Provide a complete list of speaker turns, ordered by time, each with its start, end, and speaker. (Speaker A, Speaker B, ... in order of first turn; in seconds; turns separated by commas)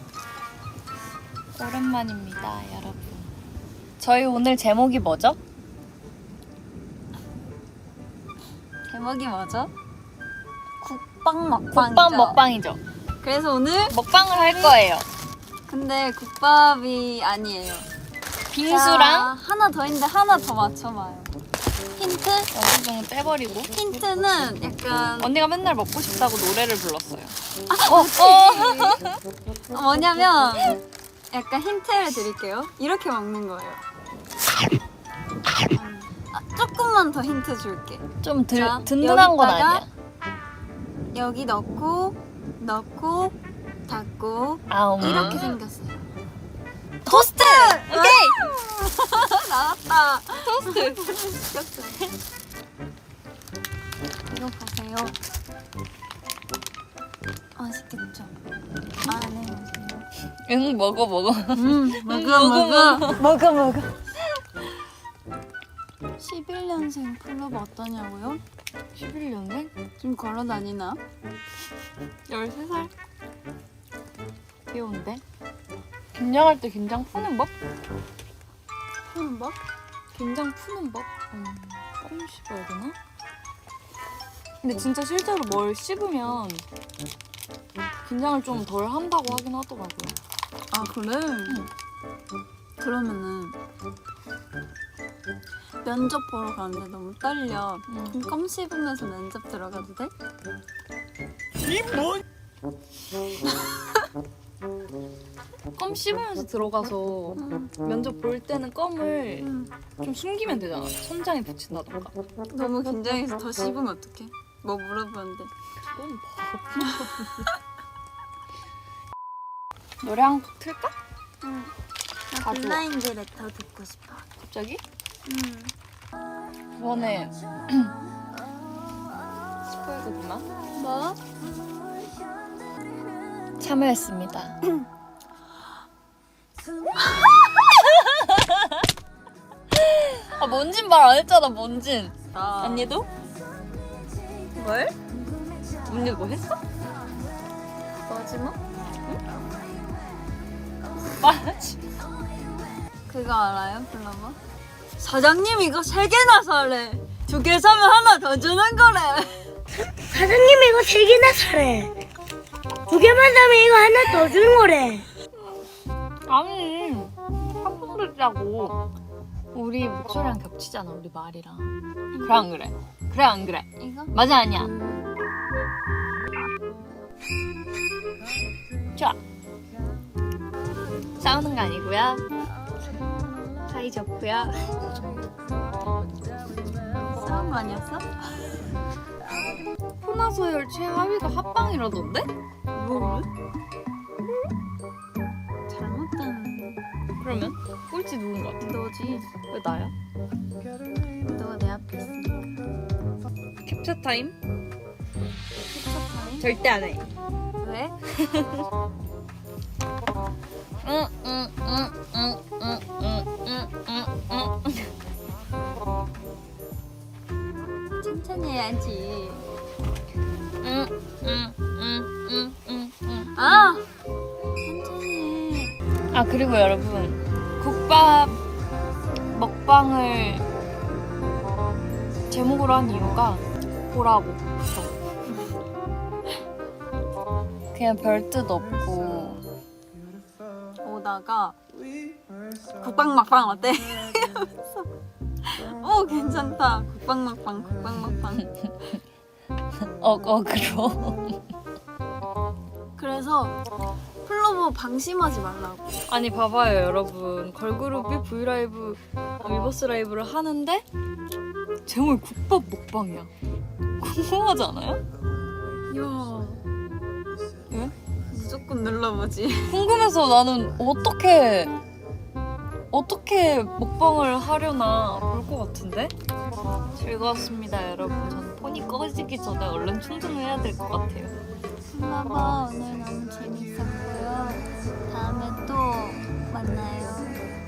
Speaker A: 1.5-3.3, Speaker A: 4.0-5.4, Speaker B: 8.9-9.7, Speaker B: 10.8-12.4, Speaker A: 11.7-12.8, Speaker B: 13.2-14.8, Speaker A: 13.9-15.1, Speaker B: 15.7-17.9, Speaker A: 18.5-19.3, Speaker B: 18.6-21.3, Speaker B: 21.9-22.5, Speaker A: 22.5-23.7, Speaker B: 23.7-25.3, Speaker A: 25.2-29.2, Speaker B: 27.7-29.0, Speaker B: 29.7-30.8, Speaker B: 31.3-33.8, Speaker B: 35.7-39.8, Speaker A: 38.2-39.9, Speaker B: 41.1-43.4, Speaker B: 43.9-46.0, Speaker A: 44.7-45.5, Speaker A: 47.0-48.5, Speaker B: 47.1-52.1, Speaker A: 50.5-51.1, Speaker B: 54.3-55.1, Speaker B: 57.6-58.3, Speaker B: 59.0-60.1, Speaker A: 60.5-63.2, Speaker B: 61.5-64.0, Speaker B: 66.2-68.4, Speaker A: 68.9-69.7, Speaker B: 70.0-71.0, Speaker A: 72.3-72.9, Speaker A: 74.7-75.2, Speaker A: 76.1-77.5, Speaker B: 79.1-79.6, Speaker A: 80.1-83.0, Speaker A: 84.6-86.6, Speaker A: 88.0-90.2, Speaker B: 90.7-91.7, Speaker B: 92.8-93.6, Speaker B: 95.8-100.1, Speaker A: 97.9-98.2, Speaker B: 103.4-103.7, Speaker A: 105.8-109.5, Speaker B: 107.4-107.7, Speaker B: 109.3-109.7, Speaker A: 110.0-112.1, Speaker B: 112.5-115.5, Speaker A: 116.0-117.4, Speaker B: 116.9-117.5, Speaker A: 120.0-120.9, Speaker B: 121.4-121.7, Speaker B: 122.3-124.3, Speaker A: 122.4-122.8, Speaker A: 124.4-124.8, Speaker B: 125.2-125.7, Speaker A: 126.8-127.9, Speaker A: 129.8-130.4, Speaker B: 130.7-131.2, Speaker A: 133.6-134.6, Speaker A: 138.0-138.7, Speaker A: 139.7-143.1, Speaker B: 142.3-142.9, Speaker B: 144.6-144.9, Speaker A: 145.8-146.6, Speaker B: 148.1-148.6, Speaker A: 151.2-151.8, Speaker B: 153.1-154.4, Speaker B: 155.0-159.5, Speaker C: 160.0-161.9, Speaker C: 162.9-165.1, Speaker A: 166.3-168.8, Speaker A: 169.5-174.8, Speaker B: 172.1-172.4, Speaker B: 173.8-174.1, Speaker A: 181.2-182.2, Speaker A: 183.7-184.8, Speaker B: 187.0-188.1, Speaker A: 190.0-193.2, Speaker B: 195.7-196.8, Speaker A: 197.2-198.8, Speaker B: 198.6-199.3, Speaker A: 199.4-199.9, Speaker B: 201.3-202.6, Speaker A: 203.6-204.3, Speaker B: 205.7-206.5, Speaker A: 206.4-207.1, Speaker B: 207.6-207.9, Speaker A: 208.2-208.7, Speaker A: 210.8-214.9, Speaker B: 218.0-219.4, Speaker A: 220.6-223.4, Speaker B: 223.3-223.8, Speaker B: 224.6-225.8, Speaker A: 226.1-228.4, Speaker A: 229.3-230.4, Speaker A: 232.3-234.9, Speaker A: 237.7-239.4, Speaker B: 240.8-241.6, Speaker B: 242.8-244.9, Speaker B: 245.4-248.5, Speaker A: 250.0-251.4, Speaker B: 253.0-253.6, Speaker B: 254.2-255.9, Speaker A: 256.1-260.8, Speaker A: 261.9-263.3, Speaker A: 264.0-265.0, Speaker B: 265.9-266.7, Speaker B: 268.3-269.8, Speaker A: 269.7-271.8, Speaker A: 272.9-276.1, Speaker A: 277.0-281.4, Speaker B: 281.9-287.4